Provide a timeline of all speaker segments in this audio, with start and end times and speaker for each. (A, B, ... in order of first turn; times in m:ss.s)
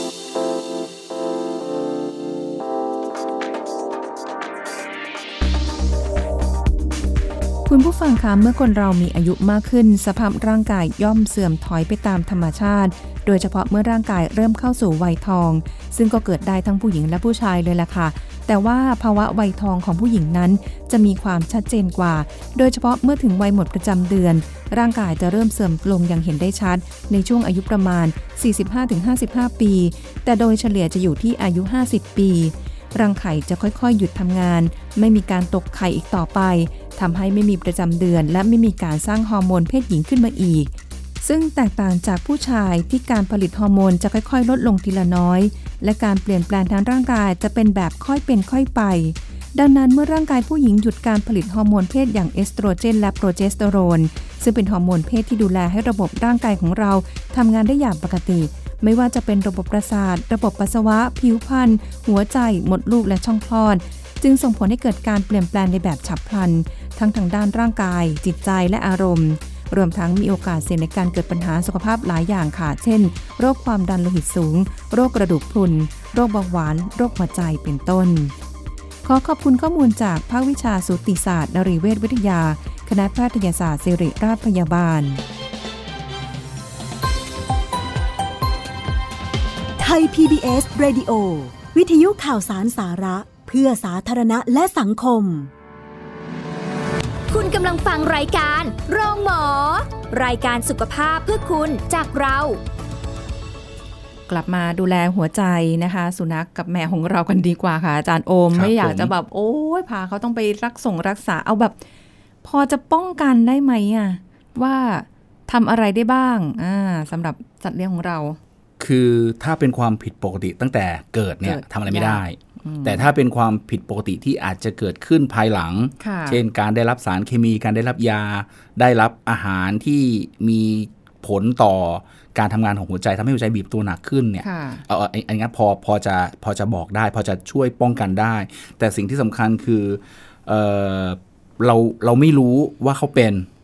0:07.6-1:18.3 A
1:19.0-1:25.2 A
1:29.8-1:35.5 B
1:37.3-1:42.6 C
1:44.3-1:51.8 A
1:48.5-1:49.1 D
1:52.4-1:58.4 A
1:58.8-2:23.5 D
2:01.4-2:03.1 A
2:06.0-2:06.4 A
2:14.4-2:14.8 A